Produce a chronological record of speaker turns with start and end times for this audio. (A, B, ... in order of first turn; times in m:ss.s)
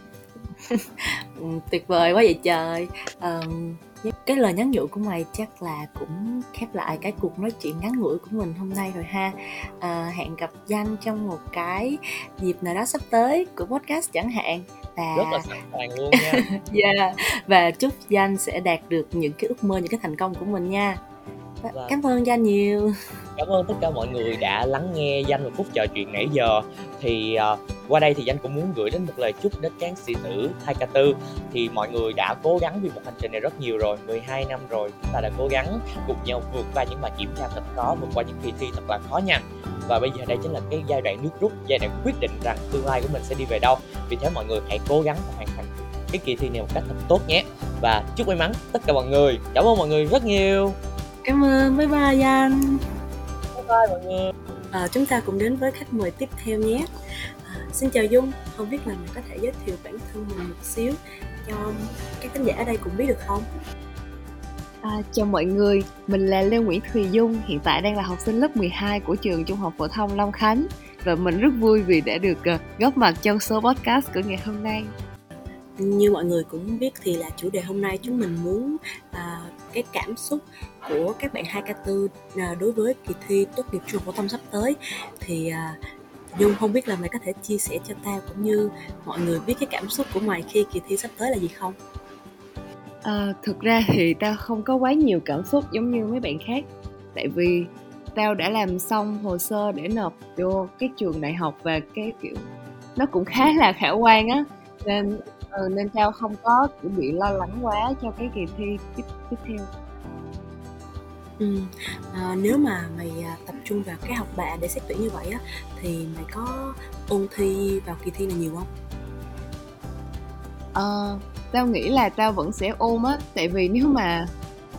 0:00.6-0:15.5 A
0:15.2-0:16.4 B
0:16.1-0:21.0 A
0:21.6-0:22.9 A
0:23.4-0:50.8 B
0:51.2-0:52.8 A
0:53.5-0:54.3 B
0:54.7-1:03.5 A
1:04.8-1:14.9 C
1:15.8-1:25.8 A
1:26.3-1:31.8 A
1:33.0-1:49.7 C
1:51.4-1:58.7 A
2:00.8-2:04.3 C